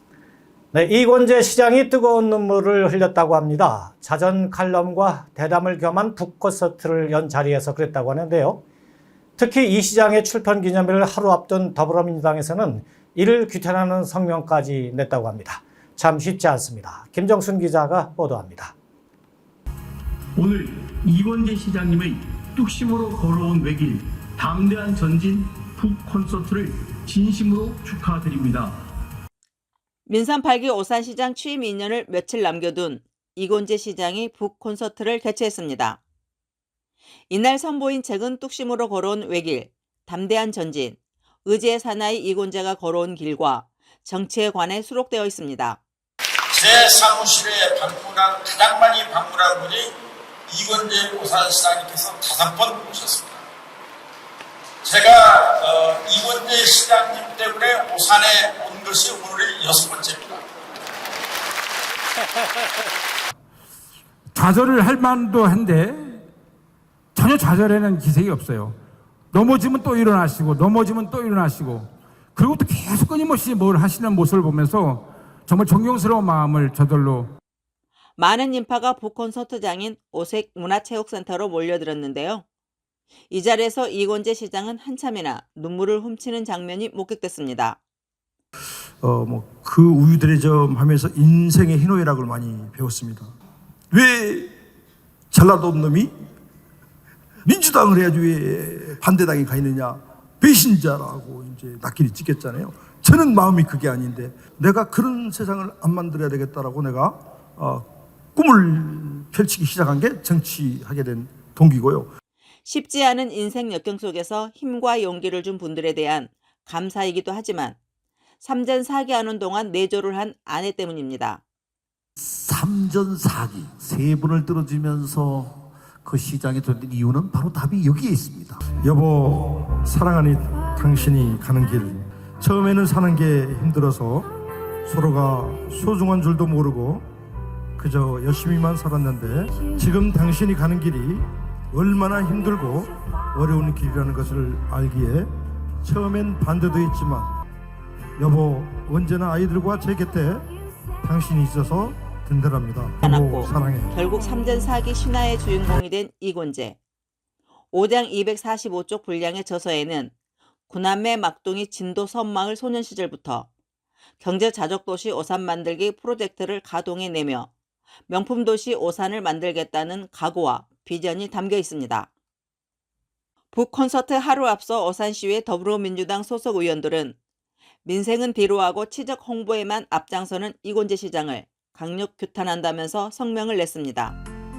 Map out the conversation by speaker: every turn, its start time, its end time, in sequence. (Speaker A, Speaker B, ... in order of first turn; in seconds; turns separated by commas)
Speaker A: 0.7-8.6, Speaker A: 9.4-18.7, Speaker B: 20.4-28.8, Speaker C: 30.1-36.0, Speaker C: 37.3-45.8, Speaker D: 46.5-49.8, Speaker D: 50.5-53.4, Speaker D: 54.9-58.0, Speaker D: 58.5-60.4, Speaker E: 64.3-66.2, Speaker E: 67.1-68.8, Speaker E: 69.3-77.3, Speaker C: 78.2-82.4, Speaker C: 83.3-87.8, Speaker F: 89.0-93.3, Speaker F: 93.9-94.5, Speaker F: 95.3-96.1, Speaker F: 97.4-112.1, Speaker C: 112.6-117.8, Speaker C: 118.4-121.4, Speaker G: 122.2-128.6, Speaker F: 128.8-134.3, Speaker F: 134.8-137.1, Speaker F: 137.8-145.3, Speaker F: 145.8-147.3, Speaker F: 148.2-150.5, Speaker F: 151.0-153.9, Speaker C: 153.0-156.8, Speaker C: 157.7-160.1, Speaker C: 160.7-163.5, Speaker C: 164.2-167.5, Speaker C: 168.1-172.1, Speaker C: 173.5-177.2, Speaker C: 177.8-184.2